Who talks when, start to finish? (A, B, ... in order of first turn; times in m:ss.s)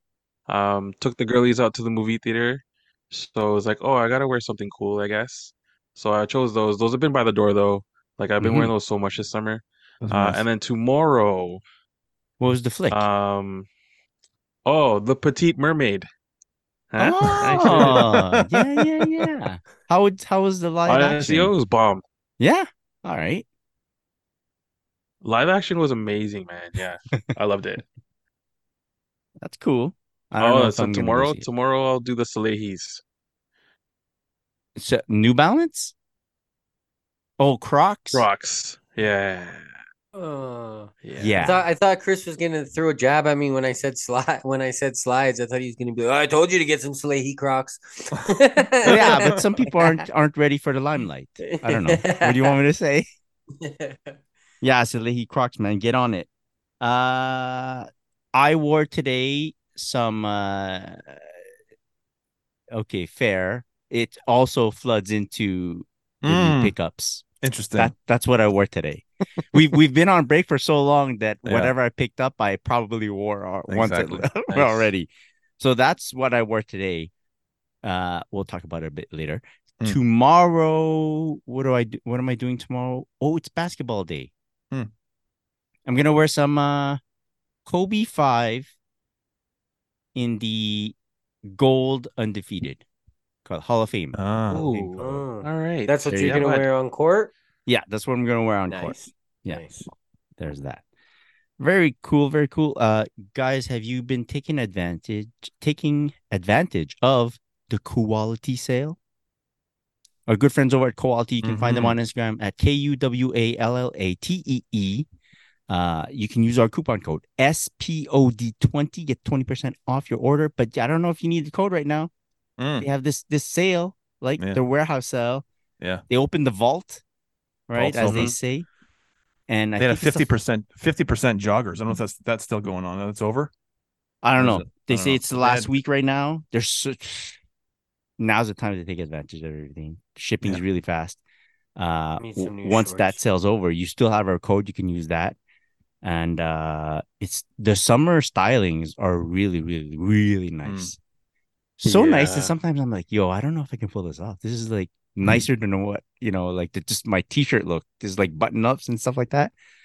0:00.5-0:11.6 A
0:08.4-0:08.7 B
0:10.0-0:10.4 C
0:12.4-0:13.1 B
0:12.9-0:13.7 A
0:14.6-0:16.1 A
0:16.9-0:18.0 A
0:17.0-0:21.5 B
0:17.3-0:18.4 C
0:20.9-0:22.0 A
0:22.4-0:23.5 B
0:25.2-0:27.8 A
0:29.4-0:31.5 B
0:30.4-0:33.0 A
0:34.8-0:35.9 B
0:37.4-0:38.3 B
0:38.1-0:39.8 A
0:40.2-0:50.0 D
0:41.0-0:41.5 A
0:41.2-0:41.7 B
0:48.8-0:49.5 C
0:48.8-0:53.1 B
0:51.4-0:52.6 D
0:53.6-0:54.1 D
0:54.6-0:56.3 B
0:56.8-1:01.3 B
1:02.7-1:15.1 B
1:06.2-1:06.7 C
1:07.4-1:07.9 C
1:11.4-1:11.7 C
1:13.7-1:14.3 C
1:14.5-1:14.9 A
1:15.6-1:17.1 B
1:17.8-1:24.3 B
1:25.9-1:27.0 B
1:27.7-1:28.7 B
1:30.2-1:31.0 B
1:31.5-1:32.8 B
1:33.4-1:34.2 B
1:34.2-1:35.0 C
1:34.5-1:36.7 A
1:35.0-1:37.3 D
1:36.1-1:36.4 B
1:37.7-1:39.6 B
1:38.7-1:39.9 D
1:40.4-1:40.8 B
1:41.6-1:49.0 B
1:50.3-1:55.1 B
1:51.4-1:52.0 C
1:55.7-2:02.1 B
2:02.6-2:02.9 C
2:02.8-2:05.4 B
2:06.1-2:07.0 B
2:07.7-2:08.7 B
2:07.7-2:08.4 C
2:08.0-2:08.4 A
2:09.5-2:10.3 B
2:09.8-2:13.5 C
2:14.2-2:17.4 B
2:14.4-2:15.7 C
2:18.2-2:21.2 B
2:21.8-2:25.4 B
2:22.2-2:23.2 D
2:26.0-2:31.0 B
2:30.6-2:30.9 C
2:31.8-2:39.5 B
2:31.8-2:32.5 A